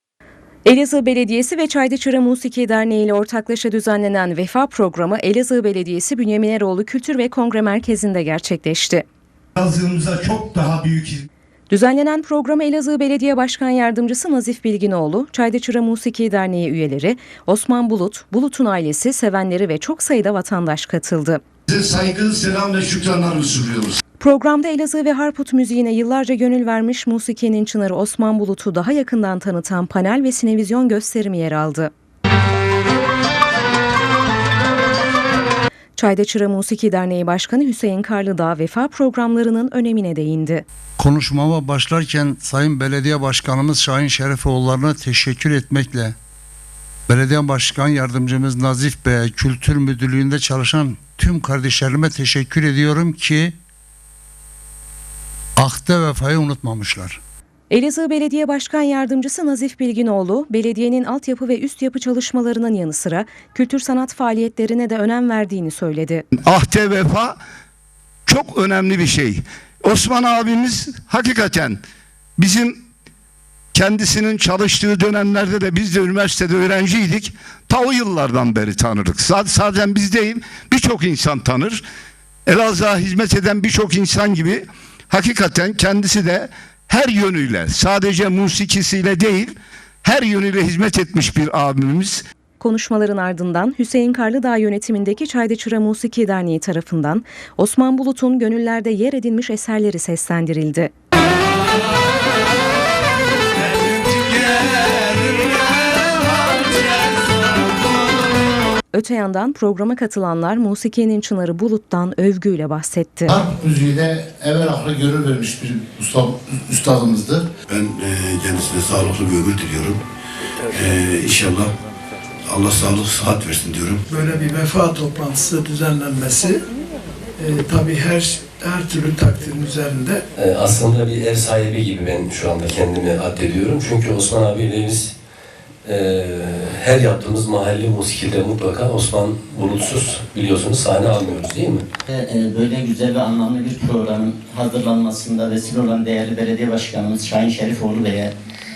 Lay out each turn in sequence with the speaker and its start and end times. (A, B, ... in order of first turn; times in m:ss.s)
0:00.6-0:09.0 A
0:09.6-0:11.3 B
0:11.7-0:21.4 A
0:21.7-0:24.0 B
0:24.2-0:31.9 A
0:36.0-0:40.6 A
0:41.0-0:46.1 C
0:47.1-0:53.6 C
0:55.6-0:57.2 C
0:57.7-1:06.2 A
1:06.3-1:07.4 B
1:08.2-1:11.8 B
1:12.4-1:12.8 B
1:13.7-1:21.8 B
1:22.5-1:32.2 B
1:32.6-1:40.9 A
1:48.9-1:53.3 A
1:53.4-1:57.4 D
1:57.7-2:00.0 E
2:00.7-2:01.7 E
2:02.5-2:04.0 E
2:04.1-2:06.6 F
2:07.4-2:10.2 F
2:10.4-2:15.1 G
2:15.8-2:21.8 G
2:22.1-2:28.3 H